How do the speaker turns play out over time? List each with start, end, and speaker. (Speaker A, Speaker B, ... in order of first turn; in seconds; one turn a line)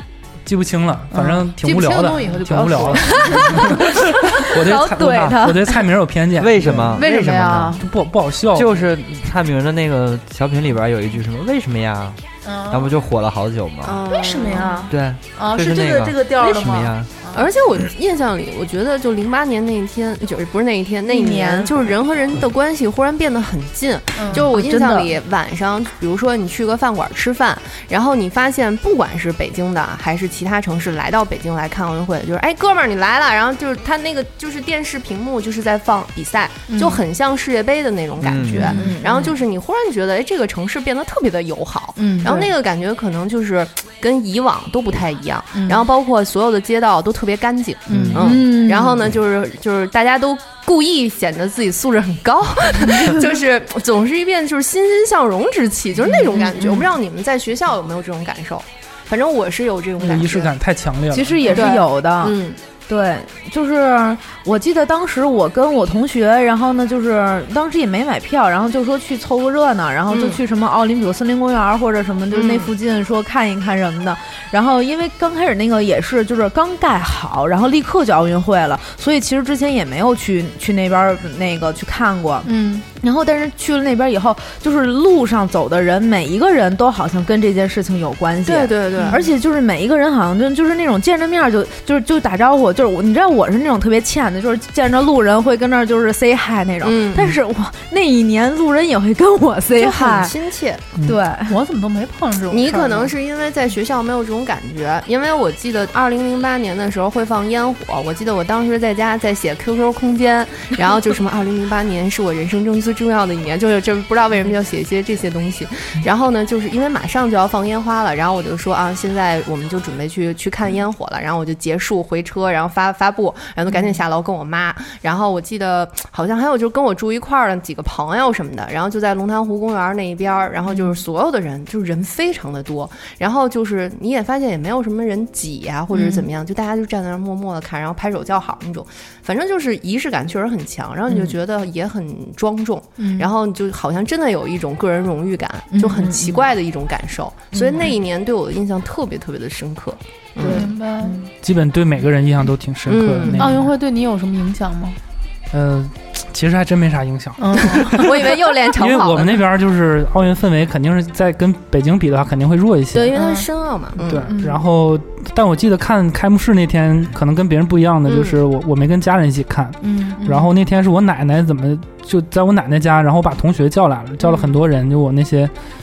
Speaker A: 0.4-7.0
Speaker B: 1.1-3.8
Speaker C: 3.1-5.8
Speaker D: 6.3-7.8
Speaker B: 6.9-7.8
Speaker A: 7.8-8.9
Speaker D: 8.5-14.1
Speaker B: 12.4-12.9
Speaker E: 13.8-14.9
Speaker B: 14.1-17.5
Speaker D: 14.9-17.1
Speaker E: 17.3-60.5
Speaker C: 21.1-21.7
Speaker B: 24.1-24.4
Speaker C: 24.4-25.1
Speaker B: 36.7-37.0
Speaker D: 38.2-38.8
Speaker B: 38.5-39.3
Speaker C: 38.7-39.3
Speaker B: 42.0-42.5
Speaker B: 45.5-45.8
Speaker B: 47.9-48.4
Speaker D: 47.9-48.2
Speaker C: 48.1-49.0
Speaker C: 56.1-56.9
Speaker A: 60.0-61.5
Speaker C: 61.1-100.3
Speaker E: 61.5-62.6
Speaker B: 61.5-61.8
Speaker E: 70.1-70.4
Speaker E: 72.3-72.7
Speaker B: 82.4-82.8
Speaker E: 88.5-89.2
Speaker B: 89.0-89.2
Speaker E: 96.8-97.4
Speaker E: 99.7-100.8
Speaker C: 101.0-101.6
Speaker B: 101.5-103.1
Speaker E: 102.5-150.7
Speaker B: 135.9-136.2
Speaker B: 143.0-143.3
Speaker B: 145.7-146.2
Speaker C: 147.5-147.9
Speaker C: 150.4-151.2
Speaker B: 150.4-151.2
Speaker A: 151.3-153.7
Speaker E: 152.9-153.5
Speaker B: 153.4-155.0
Speaker A: 155.5-163.1
Speaker B: 157.4-158.2
Speaker E: 157.8-159.4
Speaker E: 163.1-164.3
Speaker B: 163.1-163.5
Speaker A: 164.1-175.5
Speaker C: 164.3-164.6
Speaker E: 168.1-168.4
Speaker B: 169.8-170.2